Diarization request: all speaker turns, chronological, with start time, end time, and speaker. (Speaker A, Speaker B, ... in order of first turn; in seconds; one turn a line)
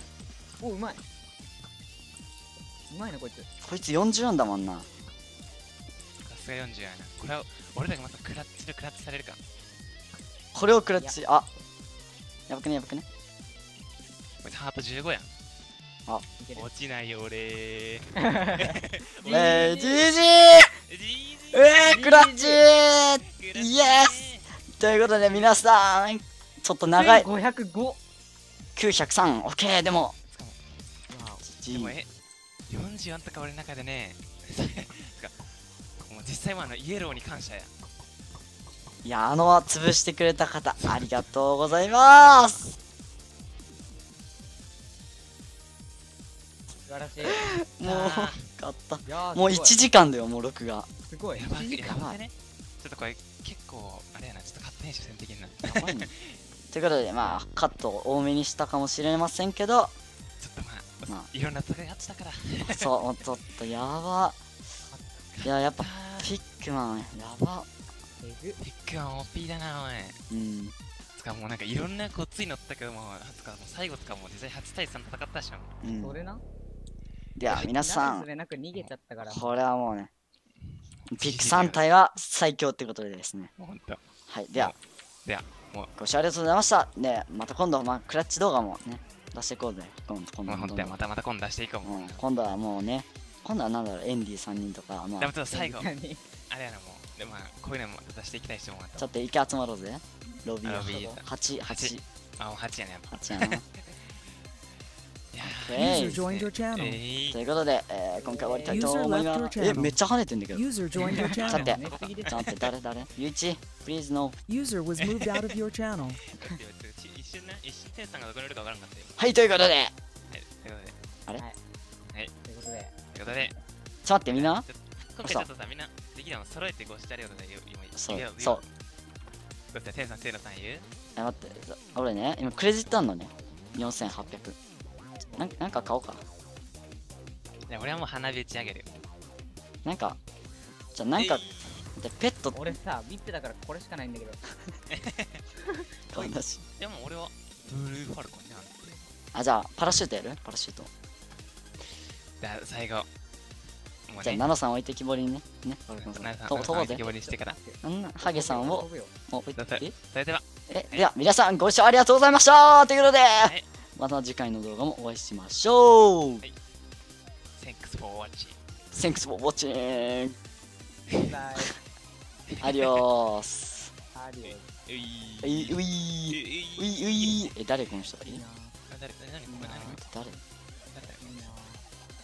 Speaker A: 0.6-1.0
Speaker A: 2.9-3.5
Speaker B: 3.6-4.9
Speaker C: 6.3-9.4
Speaker B: 10.5-11.5
Speaker B: 12.5-13.1
Speaker C: 14.4-15.3
Speaker A: 16.4-16.7
Speaker C: 16.6-19.8
Speaker A: 18.2-20.1
Speaker B: 19.3-20.8
Speaker C: 20.9-21.8
Speaker B: 21.5-27.3
Speaker A: 21.9-22.6
Speaker C: 23.3-24.5
Speaker C: 25.2-25.5
Speaker A: 26.9-28.0
Speaker B: 28.8-30.1
Speaker C: 30.3-30.6
Speaker A: 31.1-31.4
Speaker B: 31.5-32.0
Speaker C: 31.7-32.1
Speaker C: 32.7-35.4
Speaker C: 36.1-37.7
Speaker B: 39.0-42.6
Speaker C: 40.8-41.2
Speaker C: 41.8-42.7
Speaker A: 46.9-47.5
Speaker B: 47.3-50.9
Speaker C: 47.8-48.4
Speaker A: 49.0-49.8
Speaker A: 51.1-52.1
Speaker C: 51.4-56.4
Speaker B: 51.8-52.1
Speaker B: 55.7-56.1
Speaker B: 56.7-59.9
Speaker C: 60.4-62.9
Speaker B: 62.6-64.4
Speaker A: 64.9-65.2
Speaker C: 65.4-66.4
Speaker B: 65.4-67.7
Speaker A: 68.2-68.6
Speaker C: 68.6-70.2
Speaker B: 70.3-70.8
Speaker C: 71.2-75.7
Speaker B: 75.8-76.2
Speaker A: 76.0-76.4
Speaker B: 77.3-78.3
Speaker A: 77.4-79.5
Speaker B: 79.2-80.1
Speaker B: 81.1-83.5
Speaker C: 81.2-81.8
Speaker C: 83.6-84.0
Speaker B: 84.3-84.7
Speaker C: 84.5-85.9
Speaker B: 86.0-91.0
Speaker C: 90.5-92.2
Speaker B: 91.8-95.3
Speaker C: 95.2-95.9
Speaker A: 95.5-96.2
Speaker C: 96.5-99.1
Speaker B: 99.0-102.0
Speaker C: 100.7-104.2
Speaker B: 103.1-103.6
Speaker C: 105.3-107.4
Speaker B: 105.4-106.2
Speaker D: 105.8-107.0
Speaker B: 107.3-110.7
Speaker A: 108.2-108.9
Speaker D: 108.7-110.0
Speaker D: 110.5-111.8
Speaker A: 111.0-112.5
Speaker B: 111.4-114.4
Speaker C: 111.9-112.7
Speaker D: 114.5-116.2
Speaker C: 115.0-115.6
Speaker C: 116.3-119.2
Speaker B: 119.2-119.9
Speaker C: 120.3-121.0
Speaker A: 122.5-123.0
Speaker C: 123.1-123.6
Speaker B: 124.0-124.7
Speaker C: 124.3-128.6
Speaker B: 128.0-128.6
Speaker C: 129.7-130.8
Speaker B: 131.2-134.6
Speaker B: 135.3-136.2
Speaker C: 137.7-139.0
Speaker B: 139.8-140.2
Speaker B: 140.9-142.8
Speaker C: 141.2-141.9
Speaker A: 142.5-144.4
Speaker C: 144.9-145.4
Speaker B: 146.1-146.6
Speaker C: 146.8-149.0
Speaker B: 149.3-150.9
Speaker C: 152.4-153.1
Speaker C: 154.1-154.5
Speaker B: 154.2-157.0
Speaker C: 156.0-157.6
Speaker A: 156.7-159.1
Speaker B: 157.8-159.9
Speaker C: 159.6-161.1
Speaker B: 160.7-166.4
Speaker C: 167.6-168.6
Speaker B: 168.9-170.4
Speaker A: 171.2-171.8
Speaker C: 172.5-173.0
Speaker B: 172.6-173.9
Speaker A: 174.2-174.7
Speaker C: 174.4-177.5
Speaker B: 175.4-178.4
Speaker A: 178.2-178.8
Speaker C: 178.9-180.0
Speaker A: 179.5-180.0
Speaker B: 179.6-180.4
Speaker C: 180.9-181.2
Speaker A: 181.2-181.8